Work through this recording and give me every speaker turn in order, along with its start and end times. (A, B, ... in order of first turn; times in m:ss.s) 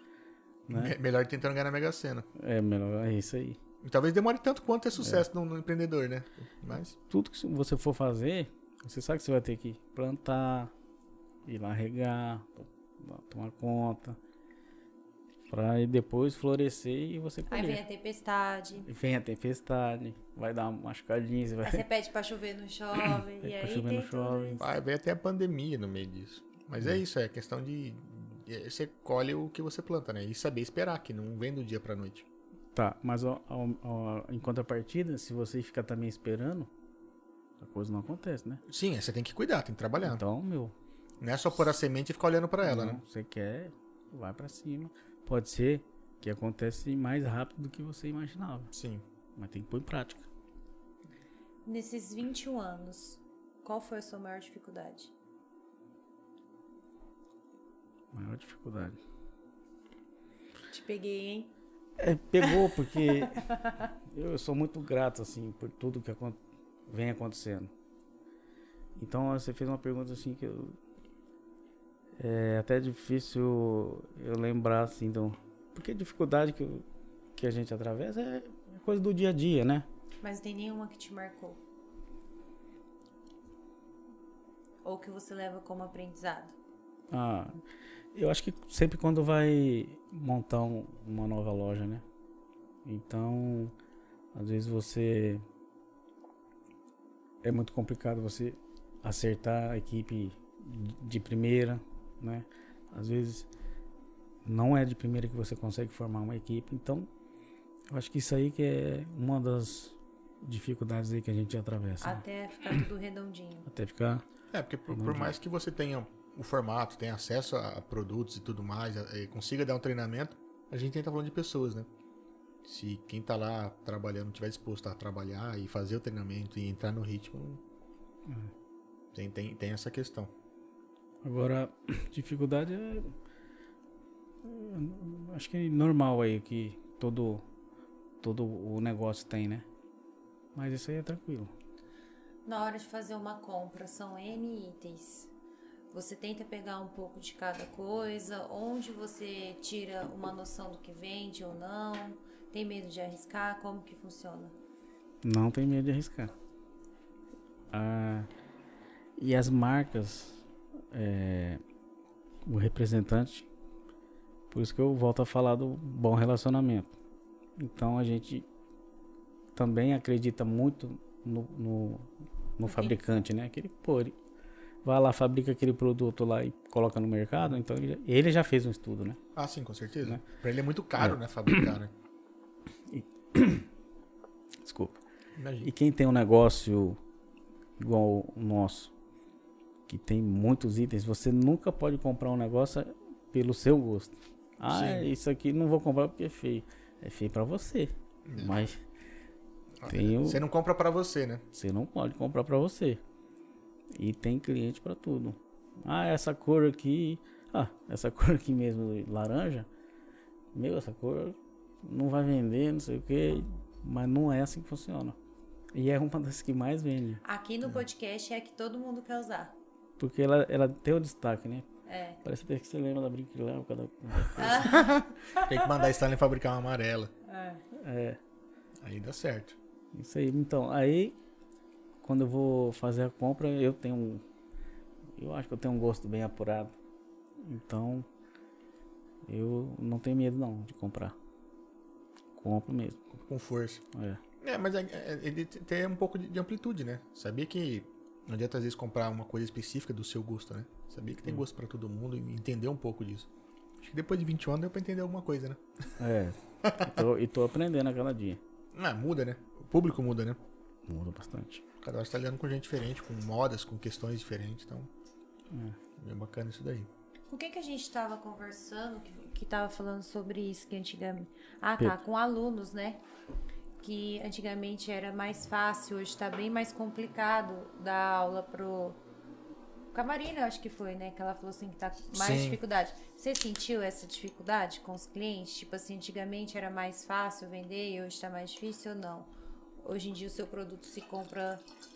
0:00.7-0:01.0 A
0:00.7-0:02.3 B
0:02.4-0:03.6 A
0:03.8-0:06.9 B
0:05.0-0:05.2 A
0:07.0-0:10.7 A
0:11.5-0:14.2 A
0:15.5-0:17.8 A
0:17.5-0:18.9 C
0:18.8-0:21.8 A
0:21.6-0:24.6 C
0:23.0-0:24.6 A
0:24.6-0:32.2 B
0:32.7-0:36.7 A
0:37.6-0:38.6 A
0:38.7-0:40.2 B
0:40.0-0:40.7 A
0:41.2-0:43.0 B
0:42.6-0:48.7 A
0:48.7-0:49.0 B
0:49.4-0:50.3 A
0:51.7-0:55.1 C
0:58.1-0:59.0 A
1:00.7-1:01.5 C
1:02.0-1:03.5 A
1:03.1-1:03.8 C
1:04.1-1:07.7 A
1:09.0-1:10.8 A
1:12.2-1:16.8 A
1:17.4-1:19.9 A
1:20.2-1:21.6 C
1:24.8-1:26.5 C
1:27.1-1:27.6 A
1:28.1-1:32.0 A
1:32.8-1:33.7 A
1:34.3-1:35.4 A
1:37.4-1:43.5 A
1:44.4-1:47.1 A
1:47.9-1:52.2 A
1:52.0-1:53.7 C
1:53.7-1:54.2 A
1:54.5-2:01.9 B
1:54.9-1:55.4 A
2:02.6-2:07.6 B
2:09.1-2:10.3 B
2:11.2-2:13.1 A
2:14.4-2:17.4 A
2:18.2-2:19.7 A
2:20.6-2:21.5 A
2:22.5-2:25.3 C
2:25.9-2:34.5 C
2:35.2-2:36.3 A
2:37.7-2:38.3 A
2:39.2-2:41.6 A
2:42.5-2:43.5 A
2:44.5-2:46.9 A
2:47.6-2:48.5 A
2:49.6-2:54.2 A
2:52.7-2:53.0 C
2:54.8-2:59.2 A
2:59.4-3:01.9 B
3:01.0-3:01.7 A
3:02.9-3:03.7 A
3:04.6-3:05.0 A
3:05.4-3:05.7 B
3:05.6-3:07.0 A
3:07.8-3:08.9 A
3:09.9-3:18.8 A
3:14.7-3:15.1 B
3:18.3-3:18.7 B
3:19.8-3:21.4 B
3:19.9-3:20.4 A
3:21.5-3:23.0 A
3:23.9-3:29.7 A
3:30.5-3:35.2 A
3:35.7-3:37.2 A
3:37.2-3:39.5 C
3:40.0-3:41.7 A
3:41.9-3:42.2 C
3:42.2-3:44.8 A
3:44.4-3:45.8 C
3:44.6-3:47.1 B
3:47.2-3:47.6 C
3:47.7-3:48.2 A
3:48.8-3:49.6 B
3:49.9-3:51.2 A
3:52.0-3:54.2 A
3:55.2-3:56.7 A
3:57.4-3:58.1 A
3:59.3-4:01.2 A
4:02.4-4:03.2 A
4:03.3-4:03.8 B
4:03.9-4:04.2 A
4:04.4-4:13.3 B
4:13.8-4:15.6 B
4:16.0-4:18.4 A
4:16.6-4:16.9 B
4:18.7-4:20.4 B
4:20.9-4:21.6 A
4:21.8-4:24.9 B
4:25.5-4:25.8 A
4:26.0-4:26.9 B
4:27.3-4:33.0 C
4:33.8-4:39.0 C
4:39.9-4:51.6 C
4:42.1-4:42.6 B